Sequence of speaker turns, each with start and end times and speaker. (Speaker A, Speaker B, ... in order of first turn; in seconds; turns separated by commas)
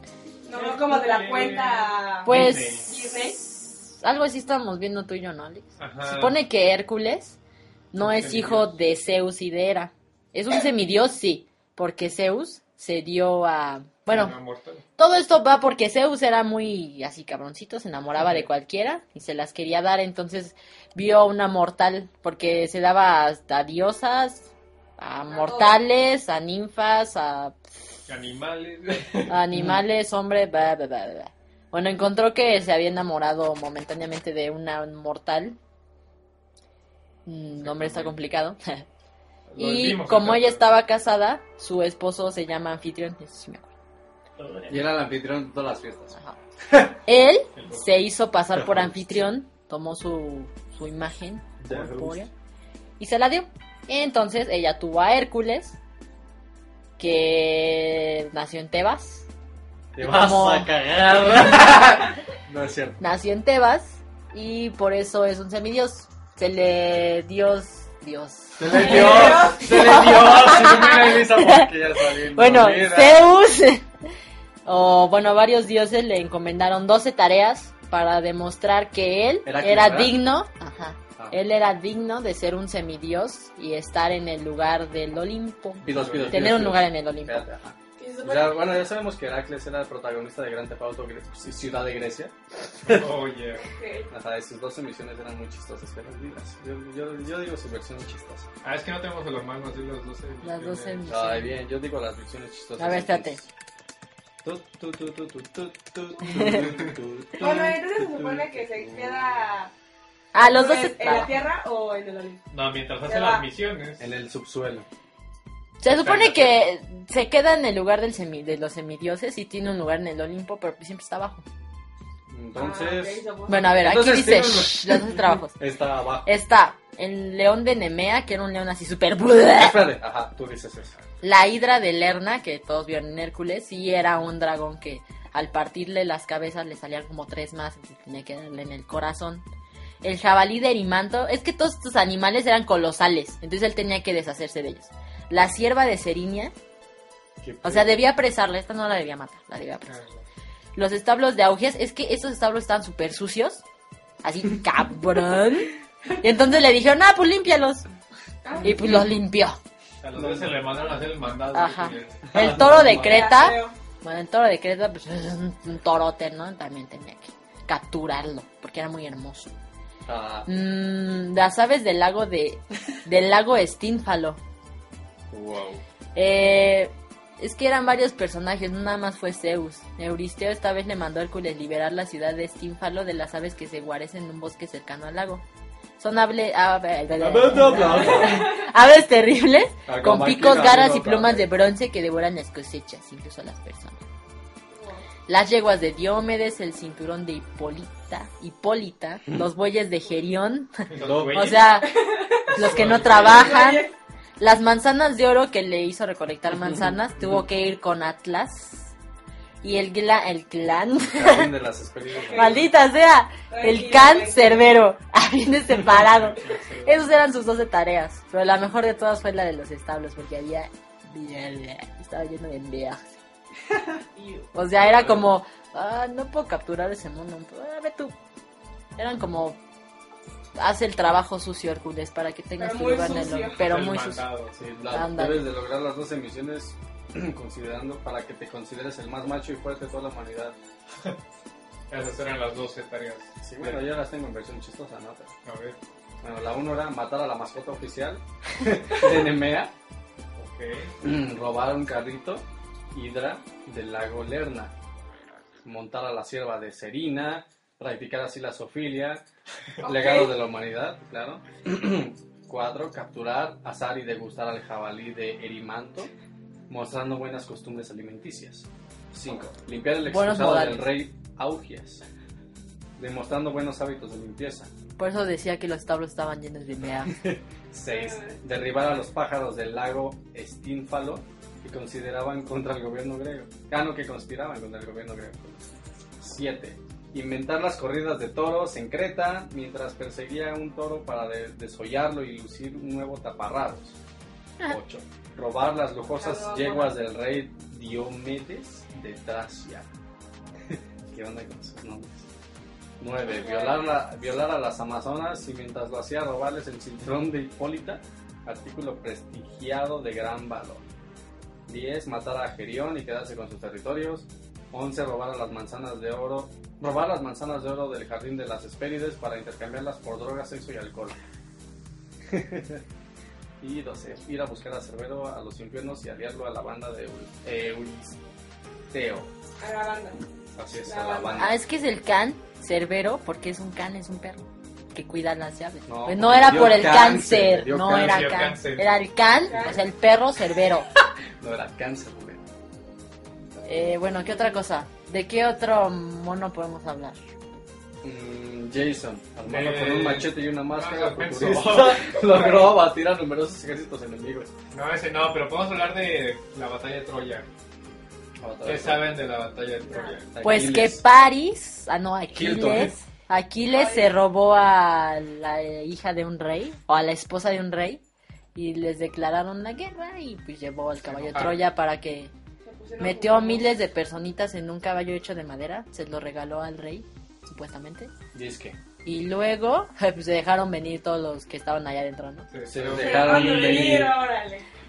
Speaker A: 0.4-3.4, Speaker B: 0.5-2.9, Speaker C: 2.2-7.4, Speaker B: 5.8-6.4, Speaker C: 7.9-14.3, Speaker B: 8.0-8.8, Speaker B: 14.1-14.8, Speaker C: 15.0-27.6, Speaker A: 25.3-25.8, Speaker B: 28.1-29.4, Speaker C: 29.3-35.6, Speaker C: 37.3-38.9, Speaker B: 37.6-38.2, Speaker B: 39.5-40.6, Speaker C: 39.6-43.7, Speaker B: 44.4-44.8, Speaker D: 44.7-46.2, Speaker D: 46.7-47.0, Speaker C: 47.0-52.3, Speaker B: 47.6-47.9, Speaker D: 48.6-49.0, Speaker D: 51.6-52.3, Speaker C: 53.0-55.8, Speaker C: 57.0-59.3, Speaker D: 59.9-63.0, Speaker C: 60.0-60.7, Speaker C: 63.0-73.9, Speaker D: 68.6-73.3, Speaker A: 68.7-70.1, Speaker C: 74.7-87.5, Speaker D: 79.4-80.2, Speaker D: 85.8-93.1, Speaker B: 85.9-86.5, Speaker A: 88.0-88.7, Speaker B: 92.8-93.7, Speaker A: 93.7-94.1, Speaker D: 94.1-98.5, Speaker B: 98.6-101.1, Speaker C: 100.4-101.5, Speaker D: 101.1-103.5, Speaker C: 102.8-103.4, Speaker D: 104.4-109.5, Speaker C: 106.3-106.6, Speaker A: 107.4-109.7, Speaker C: 110.3-111.5, Speaker A: 110.4-112.4, Speaker B: 112.5-114.1, Speaker A: 113.0-113.5, Speaker D: 114.0-114.9, Speaker C: 115.8-121.4, Speaker B: 115.9-116.7, Speaker D: 122.3-123.2, Speaker A: 122.6-123.9, Speaker C: 123.5-125.6, Speaker D: 123.7-126.3, Speaker C: 126.2-129.9, Speaker D: 129.6-130.9, Speaker C: 131.2-139.4, Speaker C: 140.0-146.6, Speaker D: 147.4-148.0, Speaker C: 147.6-149.9, Speaker B: 149.9-150.2, Speaker C: 150.8-153.6, Speaker C: 154.2-157.9, Speaker A: 158.4-159.0, Speaker C: 158.6-159.6, Speaker B: 160.0-162.3, Speaker D: 160.2-160.6, Speaker C: 161.5-169.5, Speaker D: 162.3-163.4, Speaker A: 162.8-163.8, Speaker D: 170.1-170.5, Speaker C: 170.5-174.4, Speaker D: 175.3-175.8, Speaker C: 176.2-185.4, Speaker C: 186.0-194.0, Speaker D: 187.2-188.5, Speaker A: 188.1-188.5, Speaker D: 189.9-191.5, Speaker A: 194.7-195.1, Speaker C: 195.3-202.0, Speaker B: 200.9-201.7, Speaker D: 200.9-201.5, Speaker A: 201.8-202.5, Speaker B: 202.5-203.6, Speaker C: 202.5-208.9, Speaker A: 203.1-204.0, Speaker C: 209.6-211.5, Speaker D: 211.0-212.7, Speaker A: 212.2-212.7, Speaker C: 212.3-223.1, Speaker A: 213.5-214.8, Speaker B: 216.0-217.0, Speaker A: 224.1-224.5, Speaker C: 224.5-228.2, Speaker B: 224.9-225.2, Speaker C: 229.0-229.6, Speaker C: 230.6-234.3, Speaker A: 232.6-233.6, Speaker B: 233.6-234.6, Speaker D: 234.6-240.6, Speaker C: 234.9-235.5, Speaker B: 241.9-243.8, Speaker D: 243.4-245.3, Speaker B: 245.4-245.8, Speaker D: 246.2-249.7, Speaker B: 250.4-250.9, Speaker D: 251.0-254.7, Speaker D: 255.7-259.2, Speaker A: 259.8-260.3, Speaker D: 259.8-266.1, Speaker D: 266.7-272.0, Speaker C: 270.1-271.0, Speaker D: 273.0-274.7, Speaker C: 275.0-277.2, Speaker D: 277.1-294.0, Speaker A: 277.9-278.4, Speaker D: 294.7-299.9, Speaker A: 296.1-297.0, Speaker D: 300.7-302.3, Speaker D: 303.0-310.9, Speaker A: 303.3-303.9, Speaker D: 311.7-321.2, Speaker D: 322.3-322.8, Speaker D: 323.6-328.2, Speaker D: 328.9-329.3, Speaker A: 329.6-330.2, Speaker D: 330.6-331.6, Speaker A: 330.8-331.5, Speaker C: 331.4-340.9, Speaker D: 335.9-338.3, Speaker B: 337.8-338.9, Speaker A: 339.5-339.8, Speaker D: 341.4-342.4, Speaker C: 343.6-347.2, Speaker D: 348.0-354.5, Speaker B: 349.4-352.2, Speaker A: 352.3-352.7, Speaker B: 354.7-357.5, Speaker D: 358.4-359.2, Speaker B: 358.6-360.3, Speaker A: 359.9-360.2, Speaker D: 360.3-361.0, Speaker C: 360.4-368.0, Speaker D: 362.3-362.9, Speaker A: 363.7-364.1, Speaker C: 368.6-372.3, Speaker B: 371.1-371.6, Speaker A: 372.6-373.7, Speaker C: 373.0-378.1, Speaker D: 378.3-378.8, Speaker C: 379.0-382.5, Speaker B: 382.5-383.8, Speaker D: 382.7-384.2, Speaker A: 382.9-384.7